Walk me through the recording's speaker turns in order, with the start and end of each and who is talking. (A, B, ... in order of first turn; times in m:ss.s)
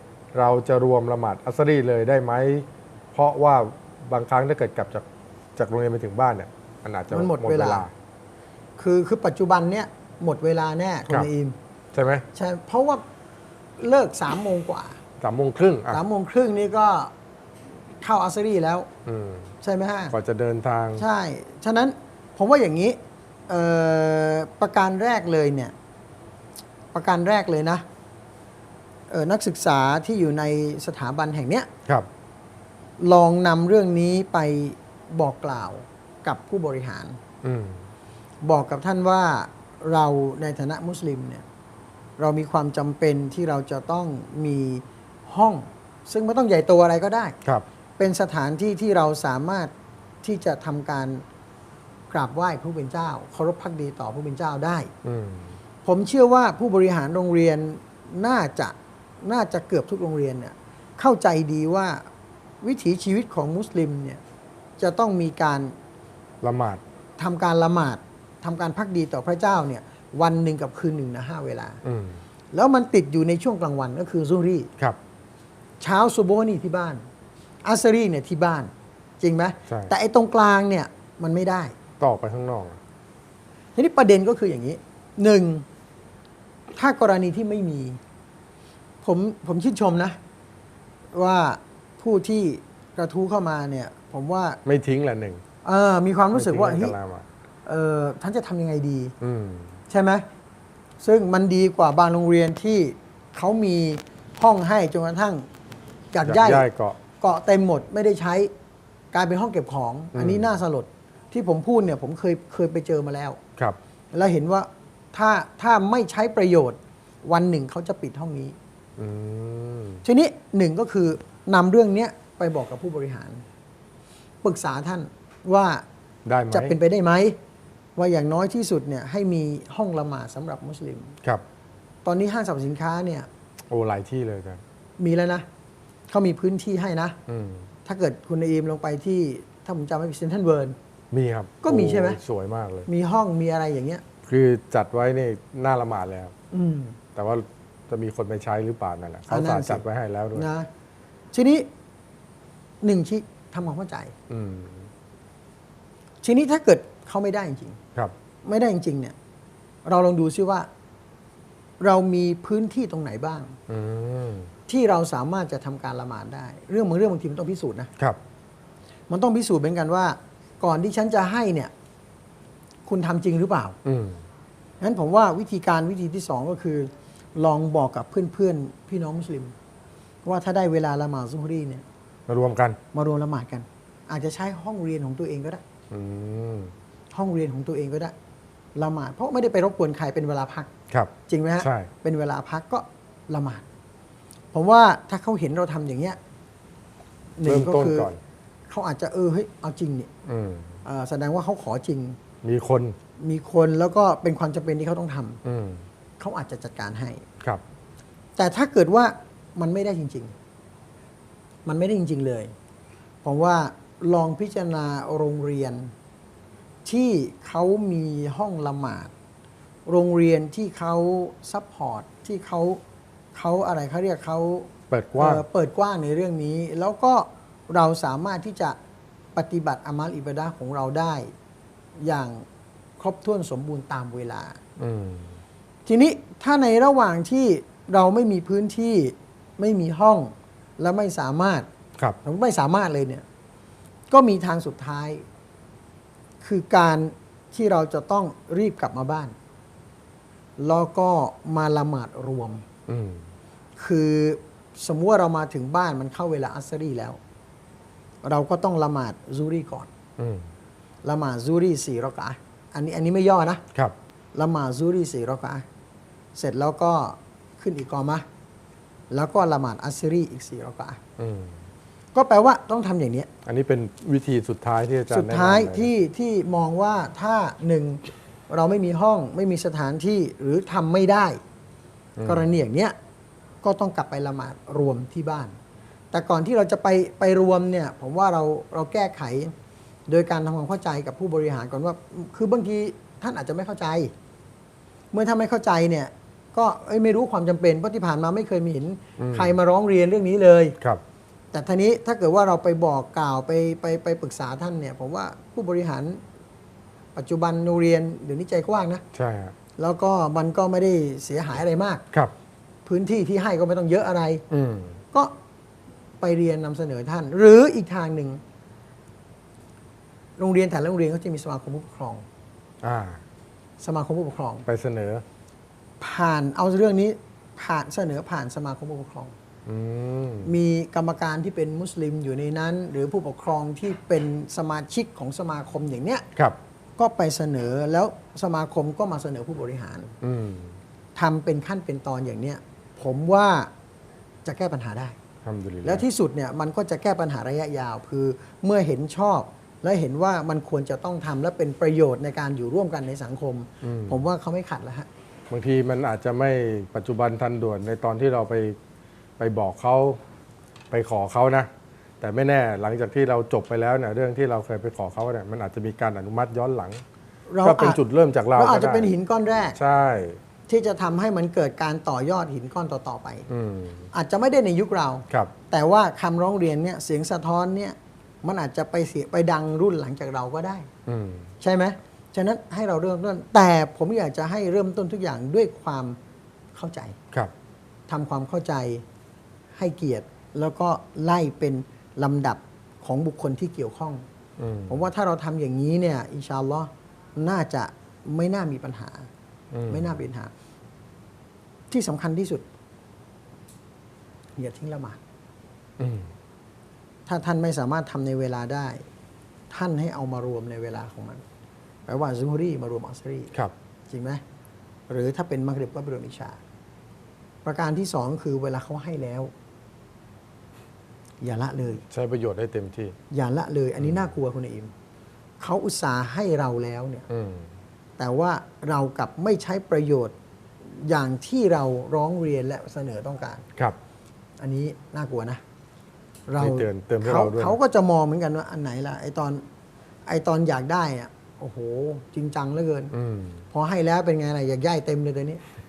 0:00.3-0:05.0 A
0:05.6-0:07.9 A
0:07.1-0:07.8 B
0:08.8-0:11.6 B
0:11.9-0:12.3 A
0:12.3-0:13.0 B
0:13.8-0:15.0 B
0:15.2-0:16.0 A
0:15.9-0:17.1 B
0:18.0-0:18.9 B
0:19.0-0:19.5 A
0:19.6-0:20.1 B
0:20.1-0:21.0 A
0:21.0-0:25.7 B
0:26.9-0:27.8 B
0:29.1-0:31.7 B
0:33.0-0:37.2 B
0:37.4-0:37.8 A
0:38.4-0:41.4 B
0:42.2-0:47.4 B
0:48.0-0:49.7 B
0:50.2-0:51.2 B
0:52.1-0:54.9 B
0:55.0-0:55.6 A
0:55.8-1:02.0 B
1:02.6-1:04.2 B
1:04.8-1:05.7 B
1:06.4-1:06.8 A
1:07.2-1:11.8 B
1:11.8-1:12.2 A
1:12.5-1:14.7 B
1:15.8-1:17.0 B
1:17.6-1:21.7 B
1:22.0-1:22.8 A
1:23.8-1:25.6 B
1:26.7-1:28.0 B
1:29.0-1:30.2 B
1:31.1-1:34.6 B
1:34.6-1:35.4 A
1:35.6-1:37.0 B
1:36.3-1:37.2 A
1:37.7-1:39.1 B
1:39.2-1:39.8 A
1:39.9-1:40.2 B
1:41.0-1:45.5 B
1:46.1-1:46.6 B
1:46.2-1:47.0 A
1:47.2-1:48.5 B
1:49.1-1:53.4 B
1:50.1-1:50.5 A
1:54.1-1:58.6 B
1:59.0-2:00.0 A
2:00.0-2:03.4 B
2:04.4-2:05.8 B
2:06.3-2:06.8 A
2:06.5-2:07.4 B
2:08.0-2:11.2 B
2:12.0-2:13.3 B
2:13.7-2:14.6 A
2:15.0-2:15.4 B
2:16.1-2:17.2 B
2:17.3-2:17.7 A
2:17.8-2:20.8 B
2:21.1-2:22.9 A
2:21.6-2:22.2 B
2:22.9-2:24.0 B
2:24.2-2:26.3 A
2:26.5-2:27.0 B
2:27.1-2:30.5 A
2:29.3-2:30.7 B
2:31.3-2:31.7 B
2:32.8-2:34.1 B
2:34.3-2:34.9 A
2:36.2-2:37.8 B
2:38.4-2:39.1 B
2:39.8-2:40.7 B
2:41.8-2:43.6 B
2:43.7-2:44.5 A
2:44.7-2:47.9 B
2:49.1-2:51.7 B
2:52.8-2:53.8 B
2:53.8-2:54.2 A
2:54.8-2:59.5 B
3:00.2-3:01.8 B
3:02.3-3:02.8 A
3:02.9-3:05.6 B
3:05.9-3:06.7 A
3:07.1-3:08.1 B
3:08.8-3:10.7 B
3:10.9-3:11.9 A
3:11.3-3:13.6 B
3:14.5-3:16.2 B
3:17.4-3:18.1 B
3:17.4-3:18.2 A
3:18.7-3:20.1 B
3:20.3-3:20.8 A
3:20.8-3:22.2 B
3:22.4-3:23.0 A
3:23.2-3:25.4 B
3:25.4-3:25.8 A
3:26.2-3:27.2 B
3:28.4-3:30.3 B
3:31.7-3:32.5 B
3:33.2-3:35.9 B
3:36.8-3:39.1 B
3:39.8-3:42.8 B
3:43.3-3:48.8 B
3:44.9-3:45.4 A
3:49.3-3:51.3 B
3:52.0-3:52.4 B
3:53.0-3:54.6 B
3:54.8-3:55.4 A
3:55.8-4:01.7 B
4:02.2-4:03.2 B
4:04.1-4:05.2 B
4:06.4-4:09.3 B
4:10.6-4:12.6 B
4:12.9-4:13.2 A
4:13.8-4:17.2 B
4:18.2-4:19.9 B
4:20.2-4:20.5 A
4:21.0-4:23.6 B
4:24.3-4:25.6 B
4:26.3-4:28.2 B
4:29.1-4:31.0 B
4:31.2-4:31.6 A
4:32.1-4:33.3 B
4:33.4-4:35.9 A
4:35.1-4:41.4 B
4:42.2-4:42.5 A
4:42.2-4:42.9 B
4:43.6-4:45.6 B
4:46.1-4:49.5 B
4:50.1-4:54.1 B
4:55.1-5:00.8 B
4:59.2-4:59.6 A
5:01.5-5:06.2 B
5:07.1-5:09.0 B
5:09.1-5:09.6 A
5:09.8-5:12.0 B
5:12.9-5:14.4 B
5:14.5-5:15.0 A
5:16.2-5:18.4 B
5:20.4-5:22.2 B
5:22.8-5:23.2 A
5:23.8-5:24.6 B
5:24.6-5:25.2 A
5:26.0-5:29.3 B
5:29.6-5:30.5 A
5:30.4-5:36.2 B
5:37.0-5:40.1 B
5:40.2-5:40.8 A
5:41.2-5:43.7 B
5:44.4-5:45.2 B
5:45.4-5:46.1 A
5:45.8-5:55.1 B
5:53.8-5:54.2 A
5:55.5-5:58.8 A
5:59.4-6:00.2 A
6:00.9-6:01.7 A
6:02.2-6:07.0 A
6:07.5-6:08.0 B
6:07.6-6:09.1 A
6:08.5-6:09.8 B
6:09.8-6:10.4 A
6:10.7-6:13.5 B
6:13.5-6:14.1 A
6:14.1-6:20.9 B
6:21.1-6:21.5 A
6:21.6-6:26.2 B
6:26.7-6:27.2 B
6:28.1-6:29.0 B
6:29.8-6:34.2 B
6:34.6-6:35.0 A
6:34.9-6:39.3 B
6:39.7-6:40.2 A
6:39.9-6:40.5 B
6:41.9-6:42.6 B
6:44.6-6:45.2 B
6:46.0-6:46.3 A
6:47.3-6:49.0 B
6:49.7-6:51.4 B
6:52.1-6:53.6 B
6:54.1-6:54.4 B
6:55.1-6:56.6 B
6:57.6-6:59.5 B
7:01.4-7:02.0 B
7:02.1-7:03.2 A
7:03.3-7:04.9 B
7:04.0-7:04.3 A
7:05.6-7:07.3 B
7:07.3-7:07.7 A
7:08.2-7:13.6 B
7:14.6-7:15.6 B
7:16.5-7:19.6 B
7:16.6-7:17.8 A
7:20.2-7:23.1 B
7:23.1-7:23.6 A
7:23.7-7:25.6 B